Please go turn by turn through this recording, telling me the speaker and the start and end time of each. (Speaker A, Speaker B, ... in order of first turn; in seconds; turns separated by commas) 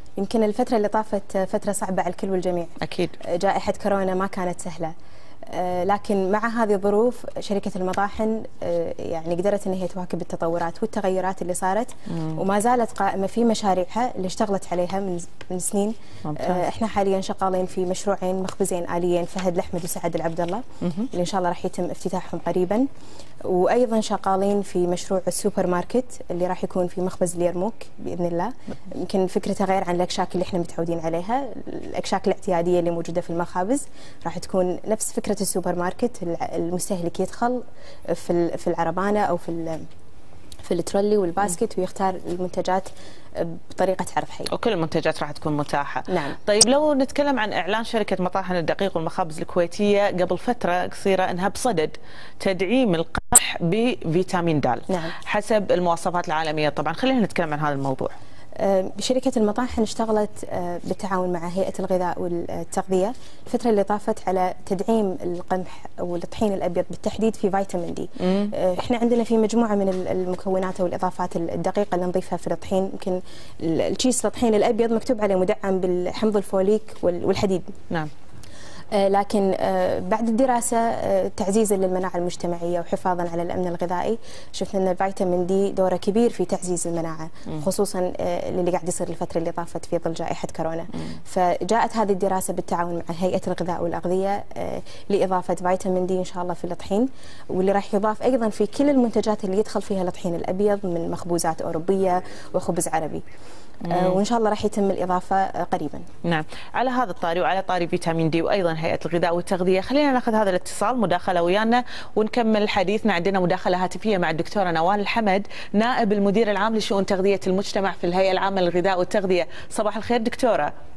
Speaker A: 0.2-4.9, Speaker B: 2.8-3.1, Speaker A: 5.5-22.9, Speaker B: 16.2-16.6, Speaker B: 20.8-21.1, Speaker A: 23.4-39.9, Speaker A: 40.6-44.5, Speaker B: 44.5-58.1, Speaker A: 46.1-46.4, Speaker A: 58.6-77.7, Speaker B: 68.2-68.5, Speaker A: 78.9-103.2, Speaker B: 103.8-104.2, Speaker A: 103.9-106.0, Speaker B: 106.2-120.7